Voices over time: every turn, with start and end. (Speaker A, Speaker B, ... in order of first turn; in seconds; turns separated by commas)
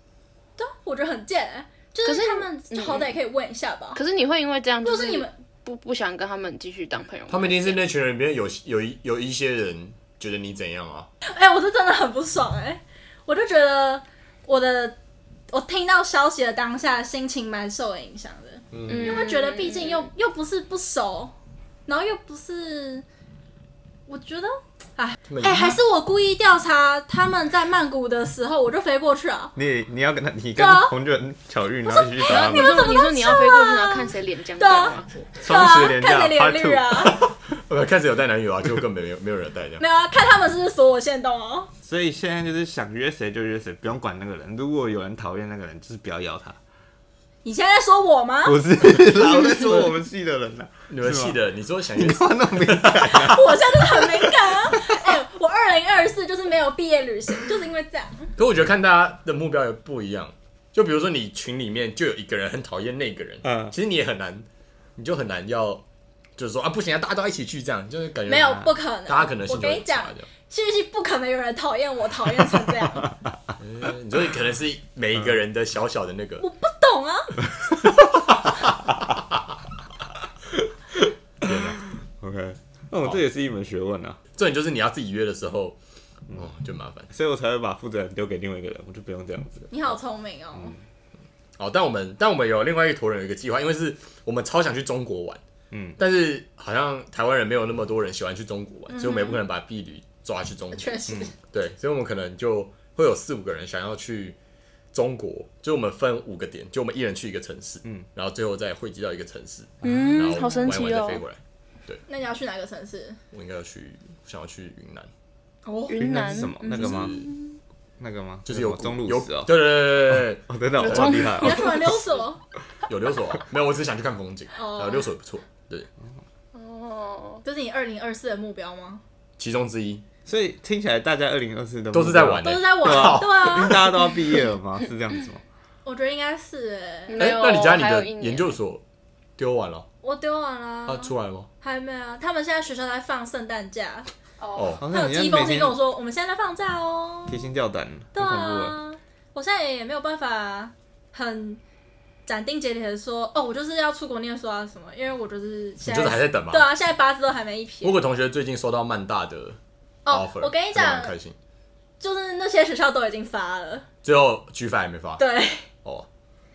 Speaker A: 0.6-4.0, Speaker B: 2.0-3.1, Speaker B: 4.0-7.8, Speaker A: 4.8-5.3, Speaker C: 7.3-11.1, Speaker A: 11.3-15.0, Speaker A: 15.5-21.3, Speaker C: 18.7-19.3, Speaker B: 18.9-20.1, Speaker A: 21.9-23.1, Speaker A: 24.1-29.6, Speaker C: 25.3-25.8, Speaker D: 29.6-32.9, Speaker A: 30.6-30.9, Speaker A: 31.9-37.2, Speaker B: 32.3-35.1, Speaker D: 35.4-37.2, Speaker C: 37.2-39.8, Speaker A: 39.8-41.7, Speaker D: 41.8-46.6, Speaker A: 47.4-48.6, Speaker D: 48.5-51.4, Speaker C: 50.9-53.5, Speaker D: 52.0-55.0, Speaker A: 53.1-58.4, Speaker C: 58.4-65.8, Speaker D: 63.4-63.8, Speaker C: 66.4-70.3, Speaker A: 68.3-73.1, Speaker C: 73.6-76.5, Speaker A: 76.4-77.3, Speaker C: 78.1-78.9, Speaker D: 81.4-84.2, Speaker C: 81.4-81.8, Speaker C: 84.4-85.8, Speaker C: 86.3-87.1, Speaker D: 87.1-89.9, Speaker A: 89.7-90.8, Speaker C: 91.6-95.4, Speaker D: 95.7-96.0, Speaker C: 96.0-104.4, Speaker A: 98.9-99.4, Speaker A: 100.7-101.3, Speaker D: 101.1-101.3, Speaker C: 104.9-112.0, Speaker B: 109.8-111.2, Speaker D: 109.8-110.4, Speaker A: 112.1-113.2, Speaker C: 113.3-115.1, Speaker A: 115.7-116.0, Speaker B: 115.9-117.6, Speaker D: 116.0-117.2, Speaker C: 116.7-117.3, Speaker D: 118.0-122.0, Speaker C: 118.5-121.3, Speaker A: 120.8-122.4, Speaker B: 120.9-121.7, Speaker C: 122.9-125.9, Speaker A: 124.6-125.1, Speaker B: 126.5-127.4, Speaker A: 127.4-129.0, Speaker C: 129.4-130.0, Speaker D: 130.3-135.4, Speaker C: 131.9-133.8, Speaker A: 132.4-133.9, Speaker A: 135.8-137.2, Speaker B: 137.1-138.6, Speaker C: 137.2-138.8, Speaker C: 139.4-139.9, Speaker A: 140.0-144.1, Speaker C: 140.9-141.5, Speaker B: 144.4-144.8, Speaker C: 144.6-144.8, Speaker D: 144.8-145.8, Speaker A: 144.9-147.4, Speaker D: 147.3-148.8, Speaker A: 148.1-151.6, Speaker A: 152.3-158.0, Speaker C: 155.8-156.7, Speaker C: 157.8-159.6, Speaker A: 160.1-161.2, Speaker C: 160.1-161.3, Speaker A: 162.0-163.9, Speaker C: 164.0-165.2, Speaker A: 165.2-165.7